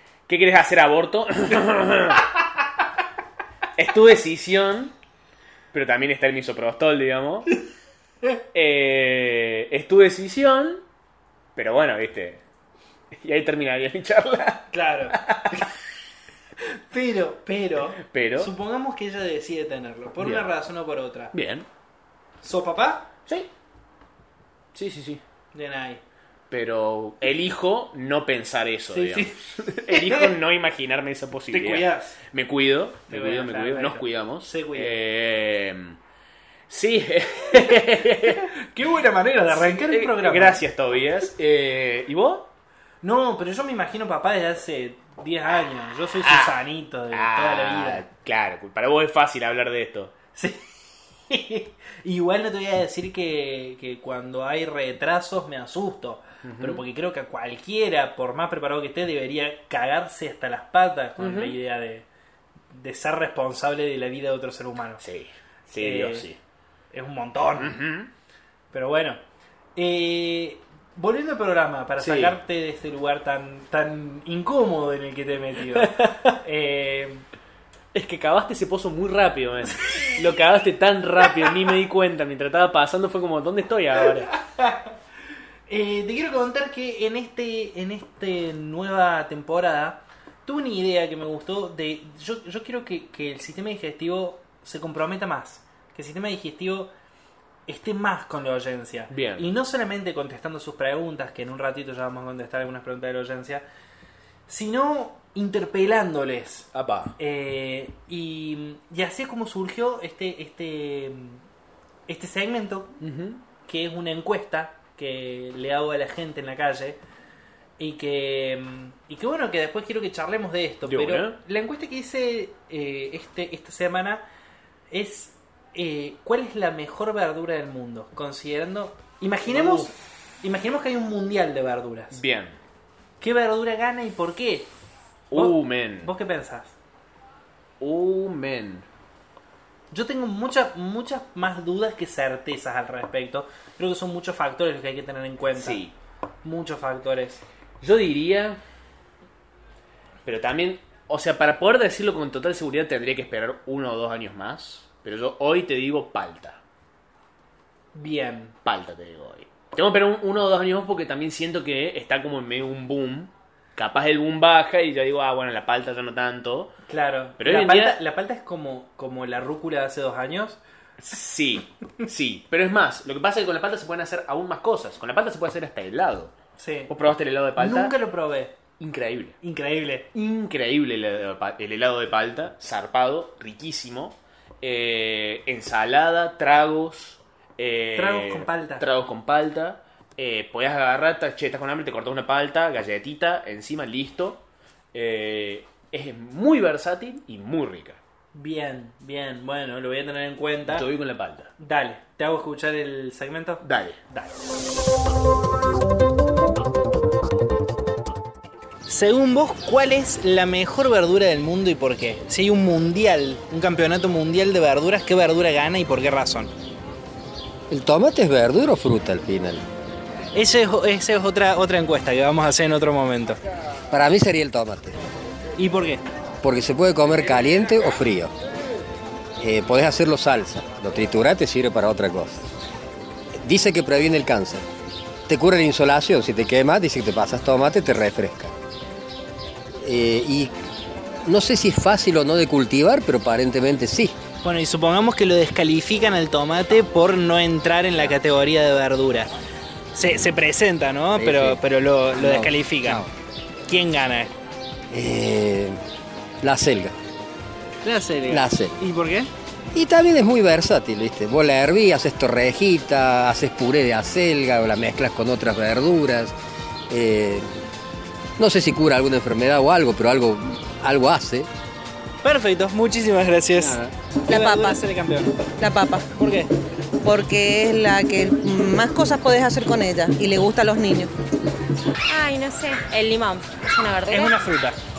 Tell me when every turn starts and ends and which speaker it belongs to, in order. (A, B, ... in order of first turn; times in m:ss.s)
0:00.3-0:02.3 A
0:03.8-0:04.9 A
0:05.7-0:07.5 A
0:08.5-0:10.8 A
0:11.6-0:12.4 A
0:13.1-0:15.7 A
0:14.7-0:15.7 B
0:16.9-0:21.3 B
0:18.0-0:18.5 A
0:20.2-0:20.5 A
0:21.3-0:21.7 A
0:22.4-0:23.1 B
0:24.7-0:25.2 A
0:25.5-0:26.0 B
0:26.5-0:36.0 A
0:28.9-0:30.3 B
0:31.5-0:32.2 B
0:33.1-0:35.0 B
0:36.7-0:38.5 A
0:38.6-0:40.6 B
0:39.5-0:42.5 A
0:43.0-0:48.1 B
0:46.2-0:50.1 A
0:50.4-0:50.8 B
0:51.3-1:02.1 B
0:56.4-0:56.8 A
1:01.2-1:01.6 A
1:02.7-1:05.0 B
1:05.0-1:06.4 A
1:05.8-1:06.3 B
1:06.9-1:07.8 B
1:07.6-1:08.1 A
1:08.7-1:09.2 B
1:09.8-1:17.3 B
1:12.0-1:12.4 A
1:15.7-1:16.3 A
1:17.9-1:24.3 A
1:24.6-1:24.8 B
1:25.7-1:36.9 B
1:37.7-1:43.6 B
1:39.1-1:39.5 A
1:44.5-1:51.4 B
1:46.7-1:47.2 A
1:52.1-1:52.9 B
1:53.0-1:53.4 A
1:53.6-1:57.0 B
1:57.8-2:04.2 B
2:00.8-2:01.4 A
2:04.9-2:12.2 B
2:09.5-2:09.9 A
2:12.1-2:12.6 A
2:13.2-2:14.7 B
2:15.3-2:16.1 A
2:15.3-2:16.8 B
2:17.8-2:18.9 A
2:19.9-2:25.8 B
2:25.6-2:26.0 A
2:26.4-2:27.4 B
2:27.8-2:28.6 A
2:30.2-2:36.6 A
2:38.0-2:38.6 B
2:38.6-2:46.7 A
2:46.9-2:50.6 B
2:47.4-2:48.0 A
2:51.0-2:56.3 A
2:56.6-2:56.9 B
2:56.9-2:58.0 A
2:57.6-2:58.6 B
2:58.8-2:59.4 A
2:59.4-3:00.1 B
3:00.1-3:14.4 A
3:08.0-3:08.9 B
3:14.9-3:18.0 A
3:18.3-3:20.9 B
3:20.7-3:21.5 A
3:21.6-3:24.4 B
3:23.6-3:24.0 A
3:28.9-3:36.5 B
3:37.7-3:39.6 C
3:40.4-3:43.4 B
3:43.9-3:45.0 C
3:45.6-3:46.0 B
3:46.4-3:48.3 C
3:49.4-3:52.4 C
3:53.4-3:54.6 C
3:55.3-3:58.5 C
3:59.8-4:00.5 C
4:01.2-4:04.2 C
4:04.4-4:09.3 B
4:10.0-4:13.0 B
4:11.2-4:11.6 C
4:12.2-4:13.1 C
4:13.7-4:14.3 B
4:14.9-4:15.8 C
4:16.4-4:17.0 C
4:17.8-4:19.3 B
4:18.3-4:18.7 C
4:19.7-4:26.4 C
4:26.9-4:27.6 C
4:28.4-4:31.5 C
4:32.2-4:35.4 B
4:34.3-4:34.8 D
4:35.6-4:36.1 D
4:36.1-4:36.5 B
4:37.0-4:41.1 D
4:42.1-4:44.4 E
4:44.1-4:44.8 B